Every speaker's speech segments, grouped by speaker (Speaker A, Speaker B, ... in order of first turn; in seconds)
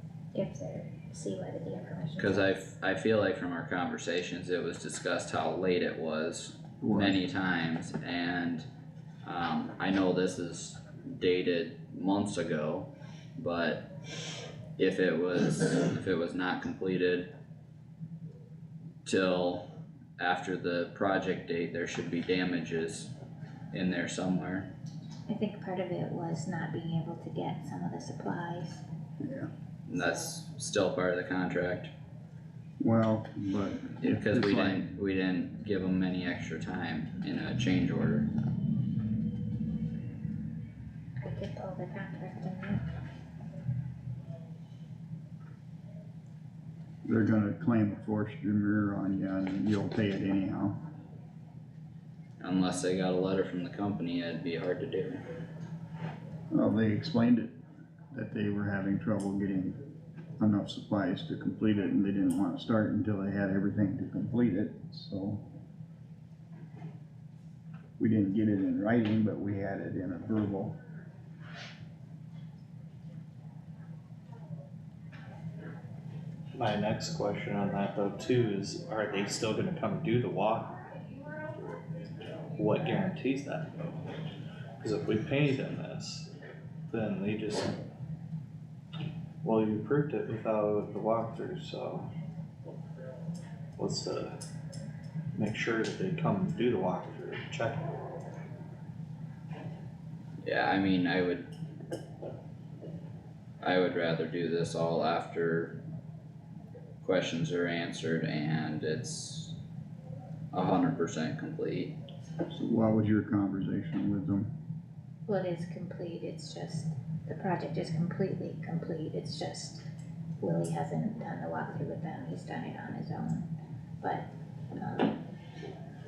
Speaker A: 0.3-2.5, 25.3-28.8, 41.2-42.8, 115.3-119.8, 120.4-123.5, 124.0-125.2
Speaker B: 2.2-8.7, 9.2-13.9, 14.8-17.3, 19.1-19.6, 20.2-23.1, 23.7-24.7, 29.9-31.9, 34.0-38.3, 52.4-55.2, 100.4-101.5, 103.6-105.8, 107.0-109.5, 110.5-112.0
Speaker C: 6.8-7.2, 29.2-29.5, 32.8-34.9, 47.1-50.8, 56.5-57.5, 58.1-59.8, 60.4-65.4, 68.0-70.8, 112.5-114.5
Speaker D: 76.5-80.9, 82.5-83.9, 84.8-86.3, 86.9-87.8, 89.4-92.1, 93.8-94.4, 95.3-97.9